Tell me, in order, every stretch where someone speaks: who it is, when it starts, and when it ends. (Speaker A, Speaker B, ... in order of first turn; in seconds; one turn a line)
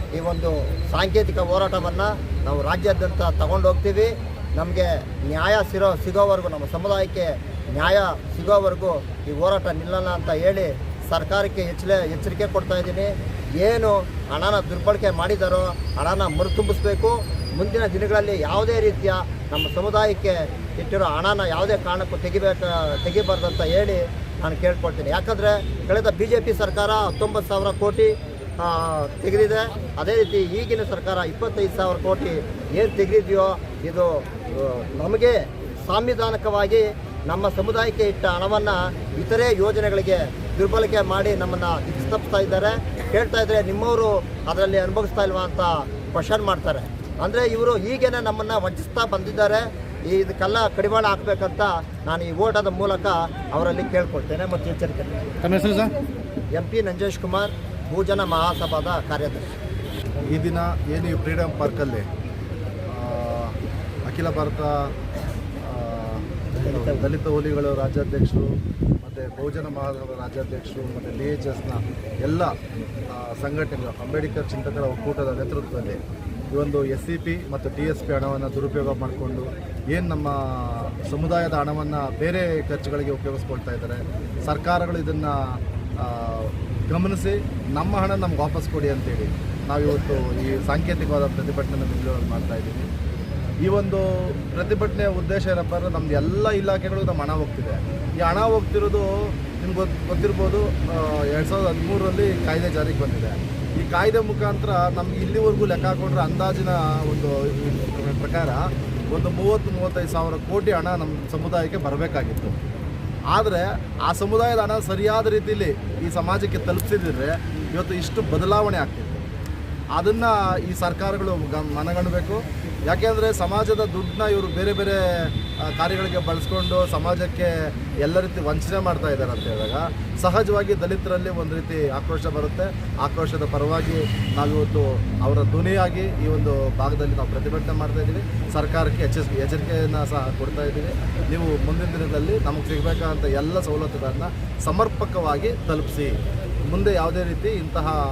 Speaker A: 0.1-55.5
Speaker B: 55.6-55.9
Speaker A: 56.5-59.5
Speaker B: 60.3-62.1
Speaker B: 62.9-64.9
Speaker B: 65.6-72.5
Speaker A: 66.5-67.0
Speaker B: 73.1-76.0
Speaker B: 76.5-92.9
Speaker B: 93.7-112.6
Speaker B: 113.3-119.3
Speaker B: 120.0-148.0